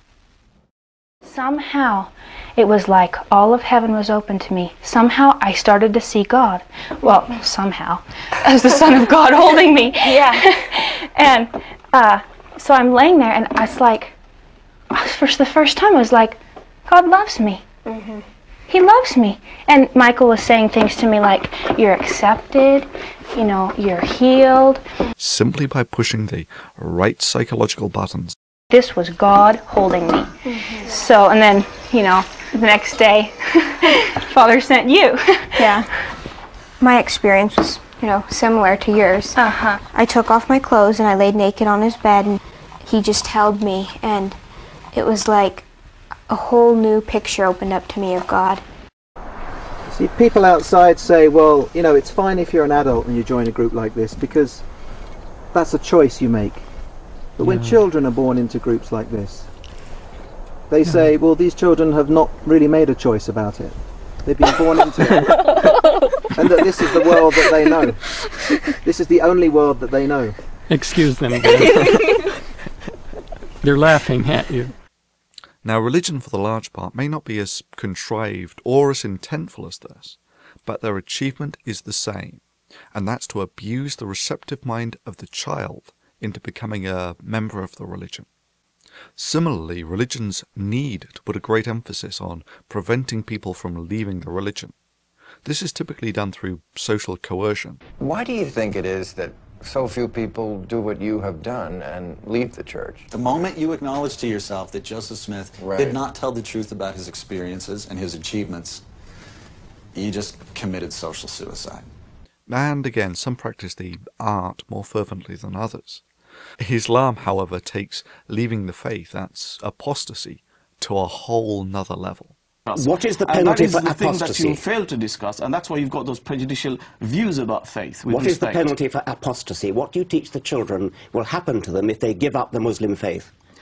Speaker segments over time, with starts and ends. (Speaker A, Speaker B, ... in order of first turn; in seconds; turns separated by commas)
Speaker A: 1.2-14.1, Speaker A: 14.9-17.6, Speaker B: 17.9-18.2, Speaker A: 18.7-24.8, Speaker C: 25.2-28.3, Speaker A: 28.7-35.9, Speaker B: 30.5-30.9, Speaker B: 35.6-35.9, Speaker B: 36.8-39.4, Speaker A: 39.3-39.8, Speaker B: 39.9-44.4, Speaker B: 44.9-45.6, Speaker B: 46.3-48.6, Speaker D: 49.9-54.6, Speaker D: 55.5-56.6, Speaker D: 57.4-59.5, Speaker D: 60.7-65.3, Speaker D: 66.3-68.0, Speaker D: 68.8-70.3, Speaker E: 70.7-72.1, Speaker E: 73.6-74.7, Speaker C: 75.6-82.4, Speaker C: 82.9-88.3, Speaker C: 89.2-94.7, Speaker C: 95.4-97.8, Speaker F: 98.0-103.0, Speaker G: 103.1-108.8, Speaker F: 105.6-106.0, Speaker G: 109.9-111.8, Speaker C: 112.5-116.0, Speaker C: 116.6-122.3, Speaker H: 122.7-128.7, Speaker I: 122.7-124.6, Speaker I: 128.1-133.3